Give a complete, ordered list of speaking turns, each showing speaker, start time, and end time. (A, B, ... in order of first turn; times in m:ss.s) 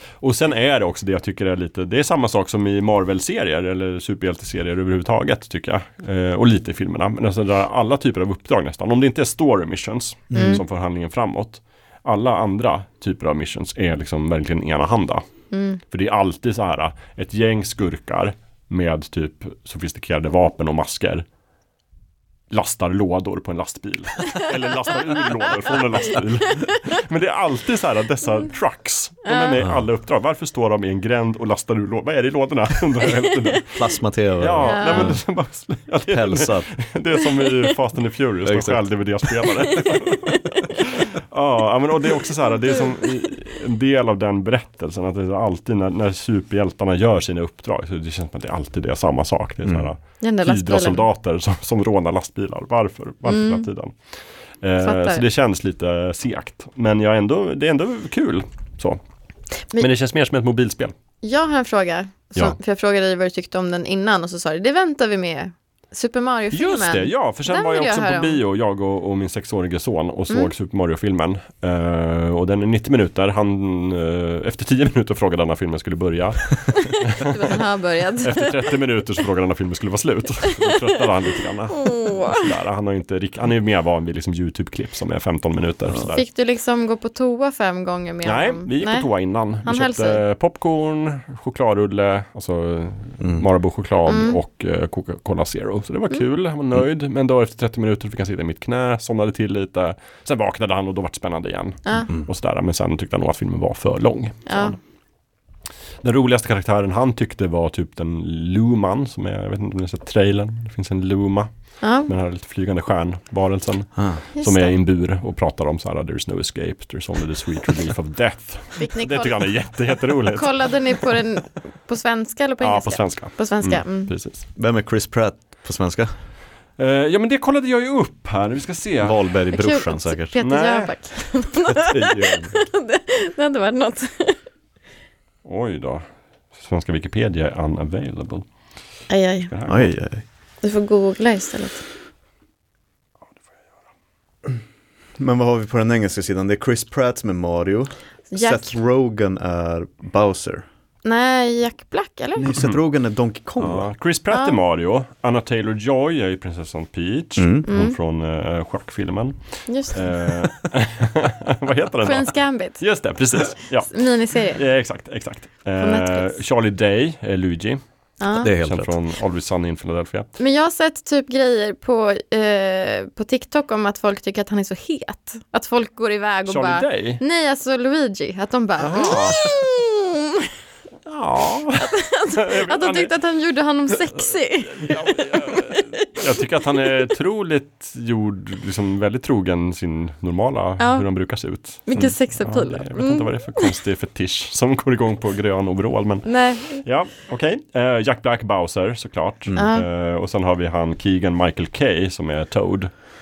0:00.2-0:15.2 A
0:10.3-0:10.6 B
0:10.3-0:10.6 C
0:15.5-0:15.8 C
0:15.9-0:21.2 A
0:22.5-0:33.8 A
0:29.2-0:29.6 C
0:33.7-0:35.2 B
0:34.4-0:59.0 A
0:34.6-0:35.2 C
0:36.1-0:36.7 B
0:38.4-0:38.9 B
0:40.1-0:40.6 C
0:50.2-0:51.0 C
0:53.3-0:53.6 C
0:54.8-0:55.2 C
0:59.7-1:00.9 A
1:01.2-1:08.4 C
1:06.5-1:17.6 A
1:17.1-1:18.5 C
1:18.2-1:26.2 A
1:21.8-1:22.5 C
1:26.0-1:29.1 C
1:28.2-1:44.8 A
1:29.6-1:30.2 C
1:33.2-1:33.4 B
1:34.1-1:34.4 C
1:41.8-1:42.1 C
1:44.5-1:44.8 C
1:46.0-1:51.5 A
1:51.8-1:52.1 C
1:52.0-2:00.7 A
1:54.0-1:54.2 B
1:54.4-1:54.7 C
1:58.8-2:04.1 C
2:02.6-2:04.4 A
2:04.6-2:06.1 B
2:06.8-2:09.2 A
2:09.0-2:10.4 B
2:09.5-2:14.4 C
2:10.4-2:10.9 A
2:11.7-2:12.6 B
2:15.4-2:18.5 A
2:19.1-2:19.5 C
2:19.5-2:19.9 A
2:19.7-2:20.2 B
2:20.6-2:21.8 C
2:25.2-2:30.6 B
2:28.3-2:28.8 C
2:31.0-2:32.6 C
2:32.4-2:33.9 B
2:33.6-2:47.8 A
2:34.3-2:34.6 C
2:37.4-2:37.7 B
2:37.7-2:38.0 C
2:39.7-2:40.2 C
2:42.0-2:42.8 C
2:43.9-2:44.6 C
2:45.8-2:46.4 C
2:48.2-2:48.5 C
2:48.4-2:48.9 B
2:48.4-2:50.3 A
2:50.4-3:00.5 C
2:56.5-2:57.2 A
2:58.8-2:59.4 A
3:01.0-3:03.1 A
3:01.8-3:05.9 C
3:04.1-3:22.9 A
3:10.8-3:11.1 C
3:11.8-3:13.7 C
3:16.2-3:16.8 C
3:19.6-3:19.9 C